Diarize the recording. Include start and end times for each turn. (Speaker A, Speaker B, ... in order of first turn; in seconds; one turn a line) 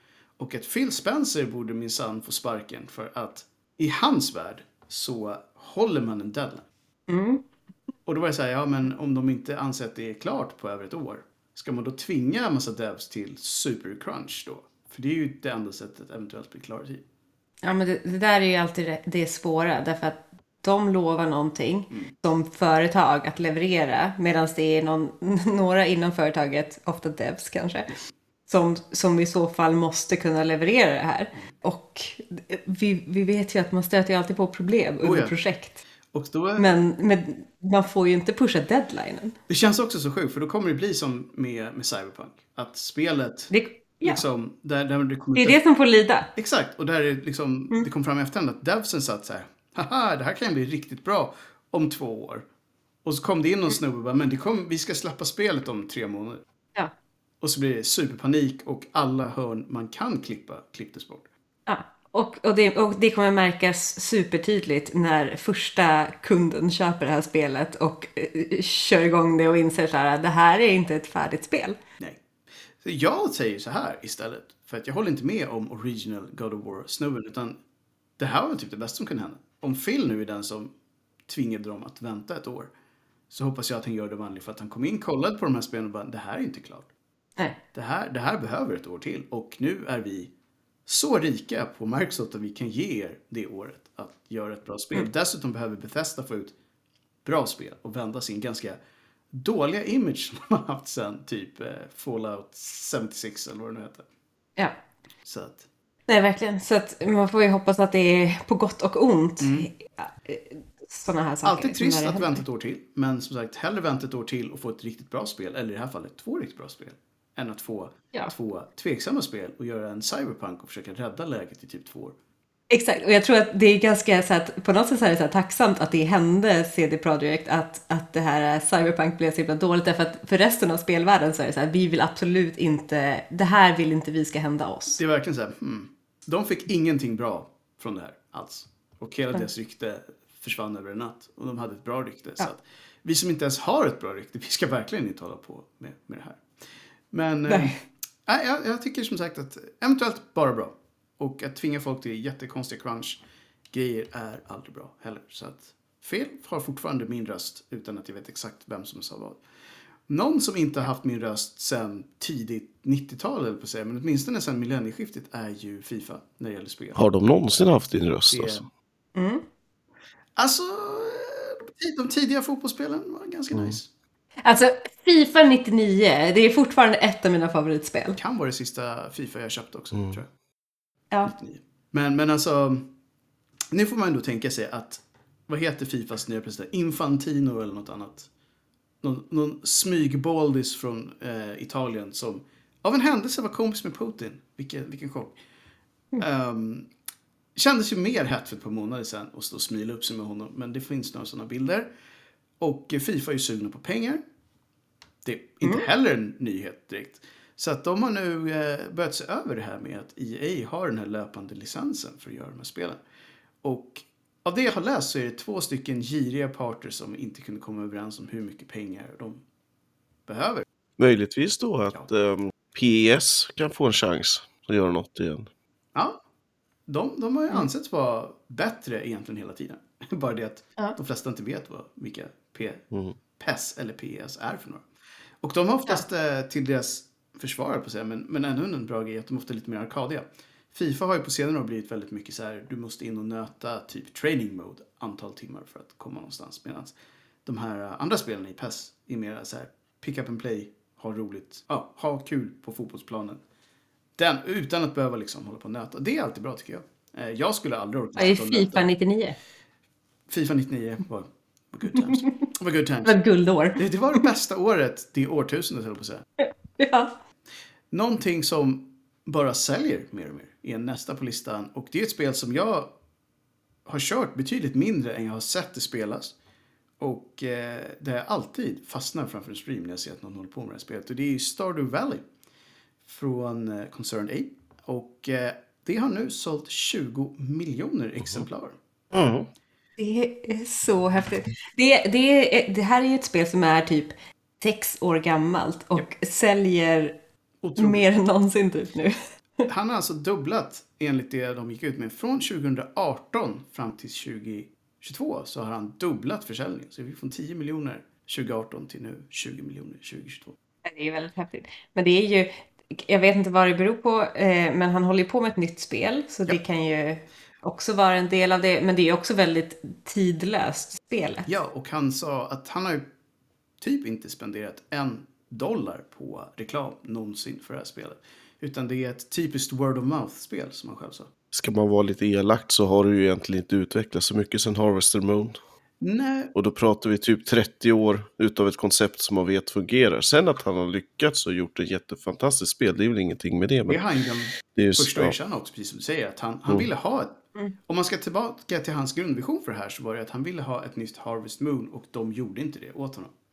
Speaker A: 0.4-6.7
Speaker B: 7.1-7.4
Speaker A: 8.1-17.0
Speaker B: 17.6-27.9
Speaker B: 28.5-35.8
Speaker A: 35.0-35.3
Speaker A: 36.1-36.8
Speaker B: 36.6-39.3
Speaker A: 39.5-43.5
Speaker B: 43.5-44.2
Speaker A: 44.0-45.6
Speaker B: 45.3-46.3
Speaker A: 46.3-52.4
Speaker A: 53.0-56.4
Speaker A: 57.4-61.3
Speaker B: 61.7-71.8
Speaker A: 72.8-77.6
Speaker A: 78.2-80.7
Speaker A: 81.3-82.7
Speaker A: 83.3-86.9
Speaker A: 87.7-90.3
Speaker A: 90.8-96.5
Speaker A: 97.2-98.8
Speaker A: 99.3-104.0
Speaker A: 105.2-105.6
Speaker B: 106.1-112.4
Speaker A: 109.4-109.7
Speaker A: 111.4-122.1
Speaker B: 122.7-135.0
Speaker A: 135.0-146.4
Speaker A: 147.1-153.2
Speaker B: 147.5-147.8
Speaker A: 153.7-159.4
Speaker A: 160.1-167.0
Speaker C: 166.9-168.6
Speaker A: 168.3-168.7
Speaker B: 169.1-169.4
Speaker A: 170.4-173.9
Speaker B: 174.4-178.2
Speaker A: 178.2-180.3
Speaker A: 181.2-182.9
Speaker A: 183.7-188.3
Speaker A: 189.0-195.3
Speaker A: 196.2-196.9
Speaker A: 197.6-201.9
Speaker A: 202.6-204.2
Speaker A: 205.2-213.0
Speaker A: 213.6-219.4
Speaker A: 220.3-220.6
Speaker C: 221.0-225.5
Speaker A: 226.9-232.8
Speaker A: 233.4-234.8
Speaker A: 235.4-246.9
Speaker A: 247.4-253.4
Speaker A: 254.2-258.9
Speaker B: 258.1-259.4
Speaker A: 260.3-263.2
Speaker B: 263.0-264.2
Speaker A: 263.8-266.2
Speaker B: 266.4-267.1
Speaker A: 267.9-272.9
Speaker A: 273.9-276.3
Speaker A: 277.0-282.2
Speaker A: 283.1-288.8
Speaker C: 289.1-289.5
Speaker B: 290.0-297.1
Speaker A: 297.6-298.1
Speaker B: 297.8-299.6
Speaker A: 299.7-310.5
Speaker B: 310.8-321.5
Speaker A: 321.4-323.0
Speaker A: 323.8-331.3
Speaker C: 331.5-335.6
Speaker A: 336.0-336.5
Speaker C: 336.5-344.0
Speaker A: 343.9-353.3
Speaker C: 344.7-345.3